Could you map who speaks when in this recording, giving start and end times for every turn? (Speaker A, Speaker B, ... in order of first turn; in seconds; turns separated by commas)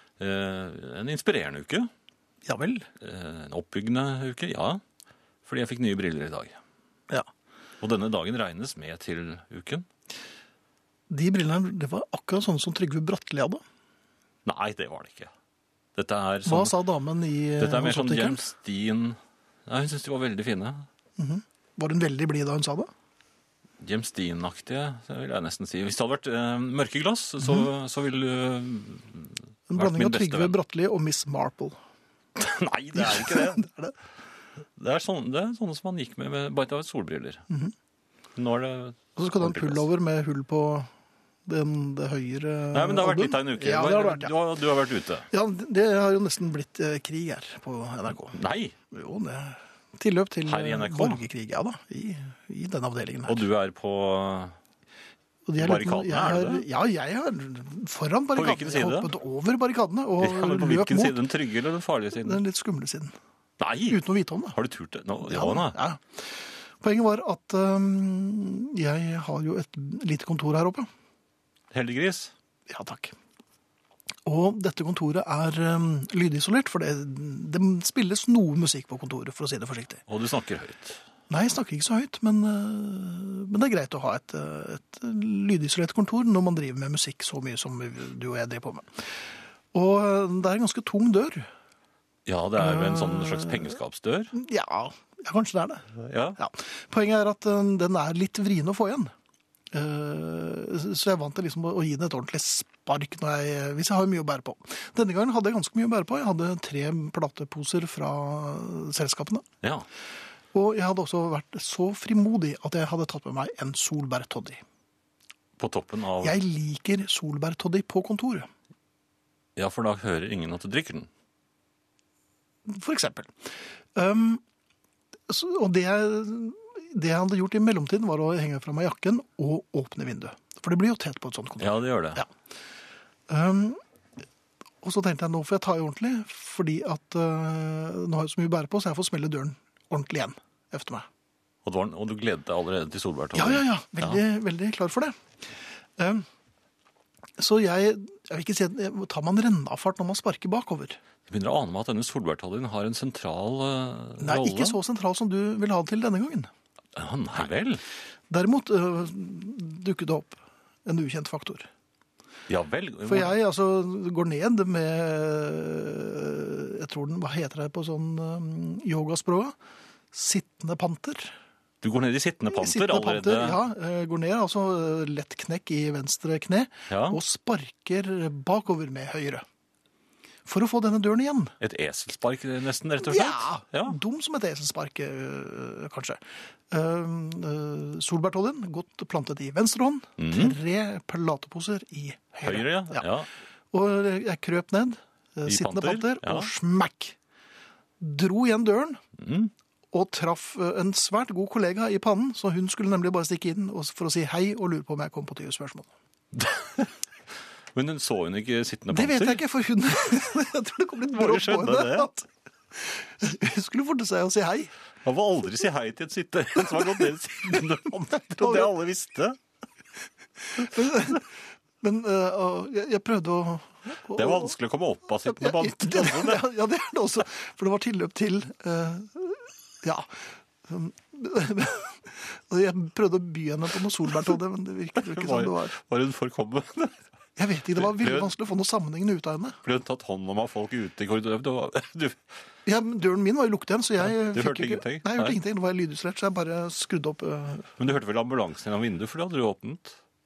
Speaker A: 0.2-1.9, Speaker B: 2.5-2.9, Speaker A: 3.0-4.8, Speaker A: 5.4-6.6, Speaker A: 7.8-9.8, Speaker B: 11.1-13.6, Speaker A: 14.4-15.3, Speaker A: 15.9-16.8, Speaker B: 16.4-18.5, Speaker A: 17.6-20.9, Speaker B: 21.2-22.9, Speaker A: 23.8-30.6, Speaker B: 29.7-31.8, Speaker A: 32.4-33.6, Speaker B: 32.9-33.9, Speaker A: 34.8-37.4, Speaker A: 38.3-39.8, Speaker B: 39.1-40.9, Speaker B: 41.5-44.3, Speaker A: 42.7-45.3, Speaker B: 45.3-48.4, Speaker A: 48.3-48.7, Speaker B: 48.9-53.4, Speaker A: 50.5-51.2, Speaker A: 53.2-54.5, Speaker B: 55.5-61.2, Speaker A: 55.6-56.6, Speaker A: 58.3-59.1, Speaker A: 60.2-62.4, Speaker B: 62.2-63.1, Speaker A: 63.6-64.0, Speaker B: 63.9-64.6, Speaker A: 64.5-65.8, Speaker B: 65.2-66.3, Speaker B: 66.8-70.9, Speaker A: 71.7-72.3, Speaker B: 72.7-73.1, Speaker B: 74.2-80.0, Speaker A: 80.1-81.0, Speaker B: 81.3-89.0, Speaker B: 89.7-91.5, Speaker A: 92.2-94.3, Speaker B: 92.6-93.6, Speaker B: 94.3-99.1, Speaker A: 96.0-96.4, Speaker B: 99.7-109.5, Speaker B: 110.5-114.6, Speaker A: 115.6-116.4, Speaker B: 116.2-118.5, Speaker A: 119.5-121.1, Speaker B: 122.7-123.3, Speaker B: 123.9-124.4, Speaker B: 125.3-132.3, Speaker A: 131.6-132.2, Speaker B: 133.3-133.8, Speaker B: 134.8-141.1, Speaker A: 141.6-144.2, Speaker B: 143.3-145.2, Speaker B: 146.0-146.2, Speaker B: 147.4-151.0, Speaker A: 151.3-154.8, Speaker B: 154.2-156.5, Speaker A: 156.9-157.8, Speaker B: 158.3-161.7, Speaker A: 162.5-163.3, Speaker B: 163.1-169.5, Speaker B: 170.1-171.3, Speaker A: 171.8-173.6, Speaker B: 172.5-179.4, Speaker A: 176.9-177.2, Speaker B: 180.4-181.5, Speaker A: 181.6-183.9, Speaker B: 183.0-193.1, Speaker A: 190.2-190.6, Speaker A: 192.4-193.3, Speaker B: 193.7-197.2, Speaker A: 195.4-196.5, Speaker B: 198.0-199.0, Speaker A: 199.2-199.5, Speaker B: 199.9-205.9, Speaker A: 206.3-206.9, Speaker A: 207.7-209.4, Speaker B: 208.9-214.7, Speaker A: 211.1-212.1, Speaker A: 215.0-219.4, Speaker B: 218.2-218.7, Speaker B: 220.5-221.2, Speaker B: 221.8-224.5, Speaker A: 224.2-226.5, Speaker B: 225.2-230.1, Speaker B: 230.7-235.8, Speaker A: 234.9-237.0, Speaker B: 237.4-239.6, Speaker A: 237.8-238.3, Speaker A: 239.6-242.2, Speaker B: 242.7-247.7, Speaker A: 244.0-245.4, Speaker A: 247.8-250.0